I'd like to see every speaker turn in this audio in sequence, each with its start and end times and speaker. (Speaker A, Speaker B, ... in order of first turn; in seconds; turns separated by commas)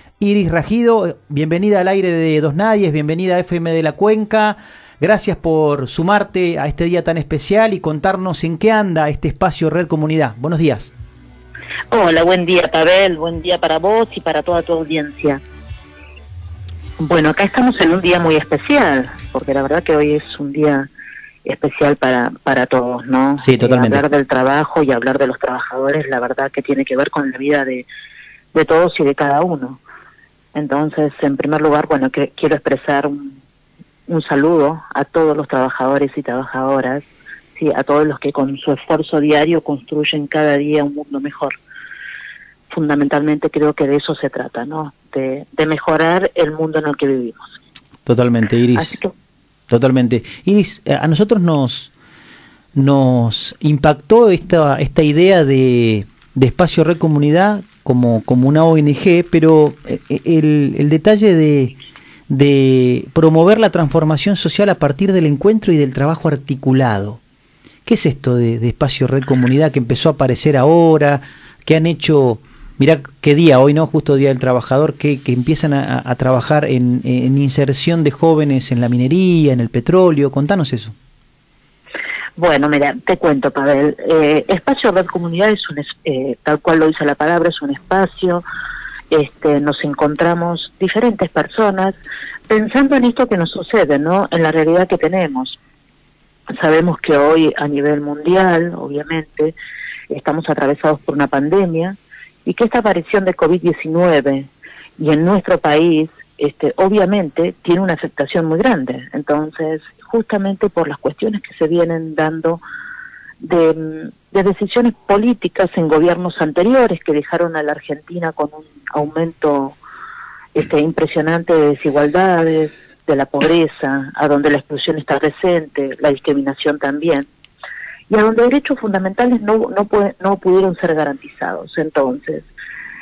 Speaker A: 0.2-10.9, Speaker B: 11.9-15.4, Speaker B: 17.0-20.9, Speaker B: 21.4-27.9, Speaker A: 23.4-24.1, Speaker B: 28.5-29.8, Speaker B: 30.6-33.4, Speaker B: 34.1-41.5, Speaker B: 42.7-47.5, Speaker A: 48.0-49.0, Speaker B: 48.8-49.1, Speaker A: 49.7-51.9, Speaker A: 52.8-61.8, Speaker A: 62.3-67.2, Speaker A: 67.9-80.9, Speaker B: 82.4-88.4, Speaker B: 89.1-92.0, Speaker B: 92.5-95.6, Speaker B: 96.6-99.5, Speaker B: 100.1-112.6, Speaker B: 113.4-119.8, Speaker B: 120.5-127.3, Speaker B: 128.1-132.5